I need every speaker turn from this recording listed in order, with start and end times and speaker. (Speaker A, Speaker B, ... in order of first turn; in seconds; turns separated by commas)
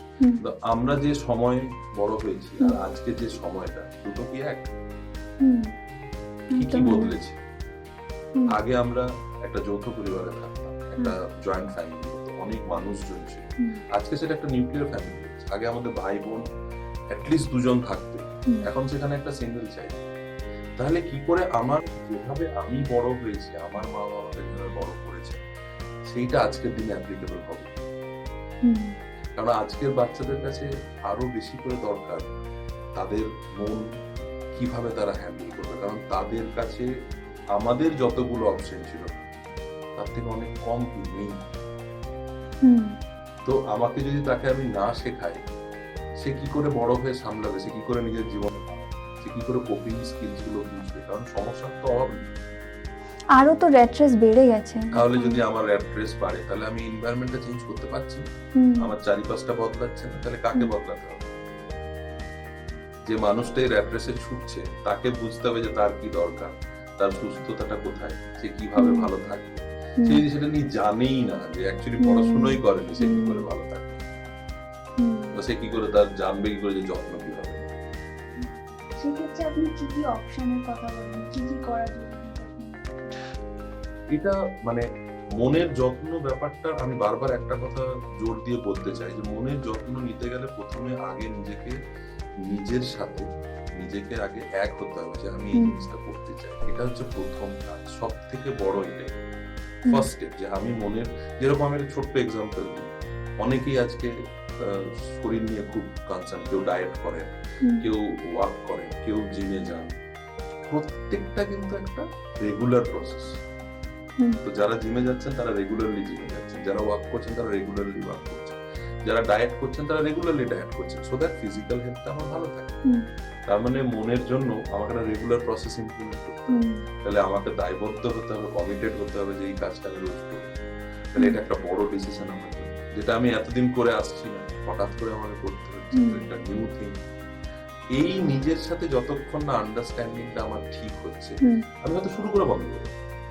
Speaker A: 0.4-4.7, Speaker B: 5.4-5.7, Speaker B: 6.5-7.1, Speaker A: 6.6-7.4, Speaker A: 8.5-16.4, Speaker A: 17.1-20.0, Speaker A: 20.8-25.4, Speaker A: 26.1-27.7, Speaker B: 28.6-28.9, Speaker A: 29.4-32.3, Speaker A: 33.0-33.8, Speaker A: 34.5-36.9, Speaker A: 37.5-39.1, Speaker A: 40.0-41.4, Speaker B: 42.6-42.9, Speaker A: 43.4-45.4, Speaker A: 46.2-52.2, Speaker B: 53.4-55.4, Speaker A: 54.9-58.2, Speaker B: 58.6-58.9, Speaker A: 58.8-61.3, Speaker A: 63.0-74.0, Speaker B: 68.8-69.1, Speaker B: 72.0-73.4, Speaker B: 75.0-75.3, Speaker A: 75.3-77.7, Speaker B: 79.0-83.2, Speaker A: 84.1-84.8, Speaker A: 85.4-91.8, Speaker A: 92.5-93.2, Speaker A: 93.8-99.2, Speaker B: 95.5-95.8, Speaker A: 99.9-102.9, Speaker A: 103.4-109.9, Speaker B: 107.6-107.9, Speaker A: 110.7-113.4, Speaker A: 114.4-122.7, Speaker A: 123.5-136.9, Speaker B: 126.5-126.8, Speaker B: 135.9-136.2, Speaker A: 137.9-142.9